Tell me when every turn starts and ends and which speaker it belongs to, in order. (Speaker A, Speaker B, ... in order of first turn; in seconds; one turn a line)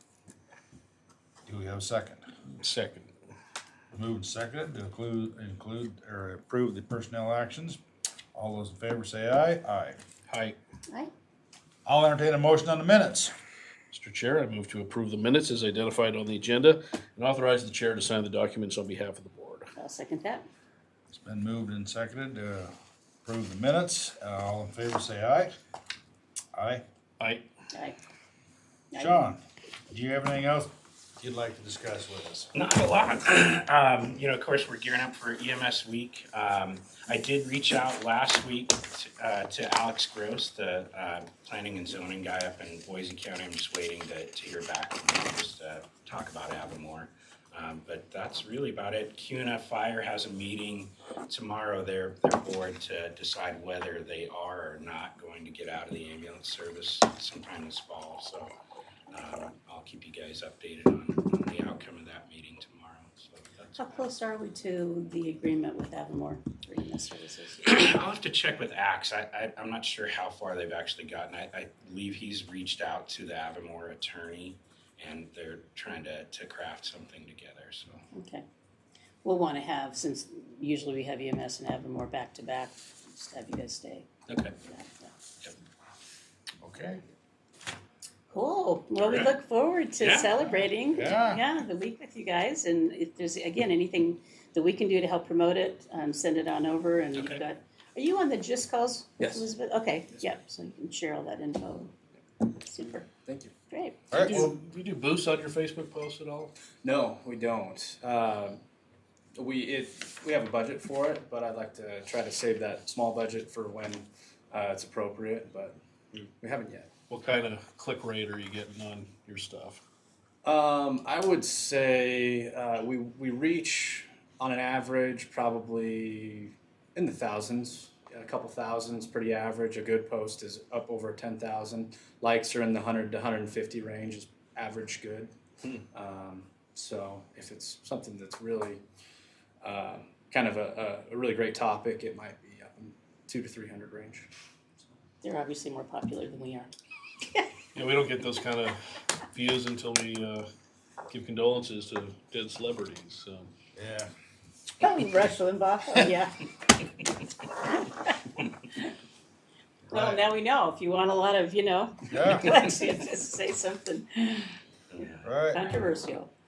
Speaker A: 1.5-2.2
Speaker B: 2.6-3.1
Speaker A: 3.9-7.8
Speaker A: 8.3-10.0
Speaker B: 10.3-10.6
Speaker A: 11.9-13.3
Speaker B: 13.9-19.7
Speaker C: 19.8-20.5
Speaker A: 21.1-22.7
Speaker A: 23.2-25.5
Speaker A: 26.5-26.8
Speaker C: 28.9-29.2
Speaker A: 28.9-32.5
Speaker D: 32.5-58.5
Speaker D: 59.1-64.0
Speaker C: 63.8-67.8
Speaker D: 67.6-78.0
Speaker C: 78.1-78.5
Speaker C: 79.2-84.1
Speaker D: 84.3-84.5
Speaker C: 84.7-85.1
Speaker A: 86.6-87.0
Speaker C: 88.3-101.9
Speaker D: 89.0-89.3
Speaker D: 90.0-90.4
Speaker A: 90.9-91.4
Speaker D: 97.1-97.4
Speaker E: 99.2-99.5
Speaker C: 102.6-103.1
Speaker E: 103.2-103.5
Speaker C: 103.7-104.5
Speaker A: 104.1-104.5
Speaker B: 104.1-106.5
Speaker E: 106.8-108.6
Speaker E: 109.4-115.8
Speaker E: 116.3-116.9
Speaker B: 117.1-119.8
Speaker E: 120.4-135.3
Speaker E: 135.9-138.8
Speaker E: 139.6-144.3
Speaker C: 145.2-146.7
Speaker B: 147.7-148.8
Speaker B: 149.3-150.5
Speaker B: 151.1-153.5
Speaker A: 153.8-154.1
Speaker C: 154.8-156.5
Speaker C: 157.7-158.9
Speaker A: 159.9-160.2
Speaker C: 159.9-166.3
Speaker A: 162.1-162.6
Speaker D: 164.9-165.3
Speaker A: 165.2-165.6